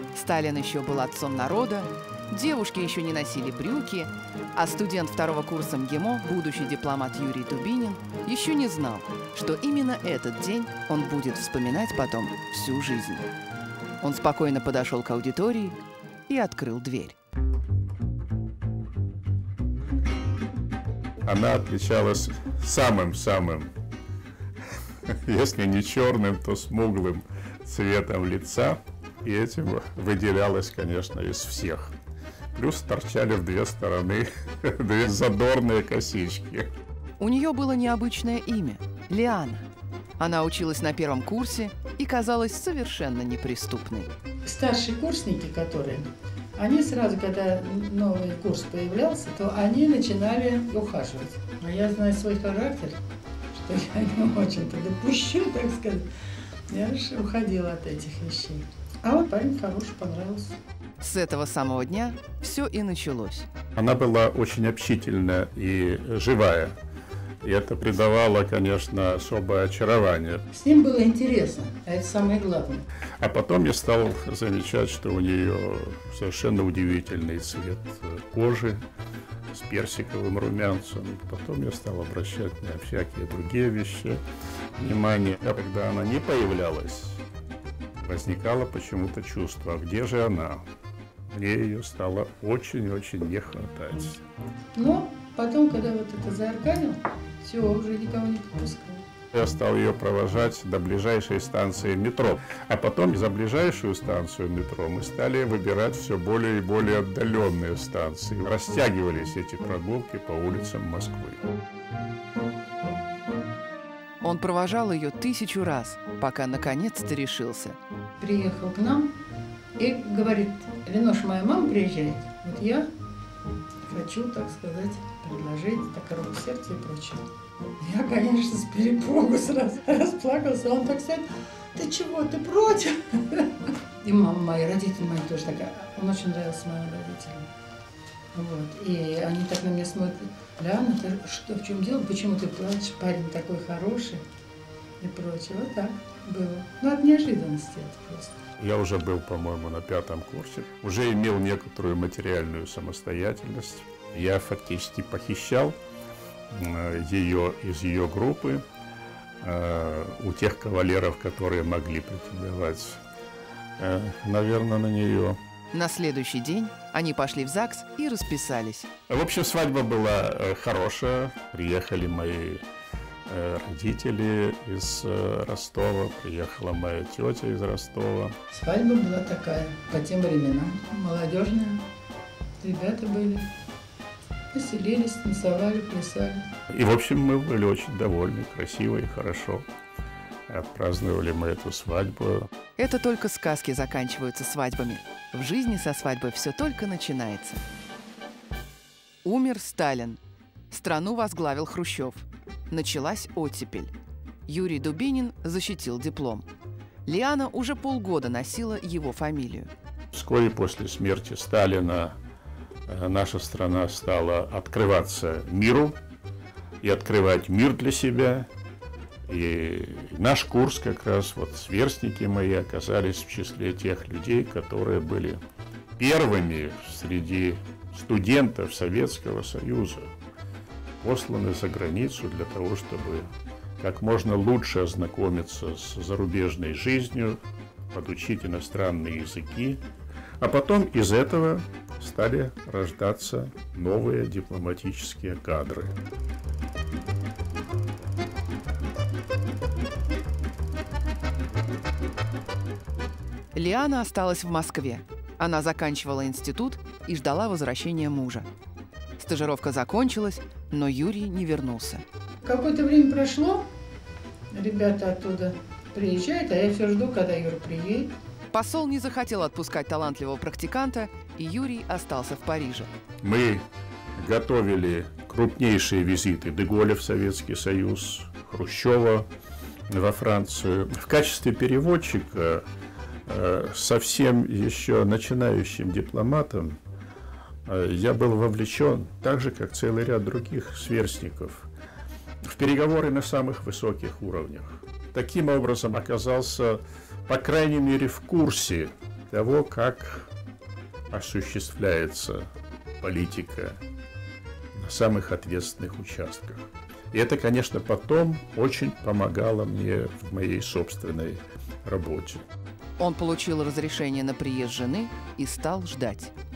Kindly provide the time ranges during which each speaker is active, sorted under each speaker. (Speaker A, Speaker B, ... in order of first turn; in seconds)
Speaker A: 0.1-13.3, 14.0-17.1, 37.2-39.6, 40.2-44.1, 61.0-63.5, 114.2-117.8, 165.7-168.9, 192.8-197.6, 199.2-200.2, 200.7-203.9, 204.5-206.5, 207.1-209.7, 253.5-258.5, 259.2-262.0, 268.5-272.9, 313.0-316.3
Speaker B: 21.2-23.7, 25.0-31.9, 32.5-36.7, 63.7-66.7, 67.4-70.4, 73.2-78.8, 79.5-84.2, 84.8-87.2, 87.9-90.6, 91.3-94.2, 99.3-111.5, 148.6-155.8, 156.5-158.6, 159.4-163.0, 163.8-165.4, 169.1-172.6, 173.3-178.3, 186.7-189.7, 190.5-192.5, 210.1-212.1, 212.9-216.0, 216.8-218.5, 219.2-225.4, 226.0-230.1, 231.0-239.8, 240.4-246.0, 273.2-279.3, 279.9-282.7, 283.2-286.8, 287.6-291.7, 292.5-300.3, 301.1-303.8, 304.7-312.5
Speaker C: 44.4-53.0, 53.5-56.1, 56.7-60.6, 70.5-72.8, 94.7-99.0, 118.2-119.1, 119.8-122.9, 123.9-127.2, 127.8-137.5, 138.3-144.2, 145.0-148.4, 178.5-181.8, 182.6-183.5, 184.5-186.4, 262.4-263.7, 264.5-268.1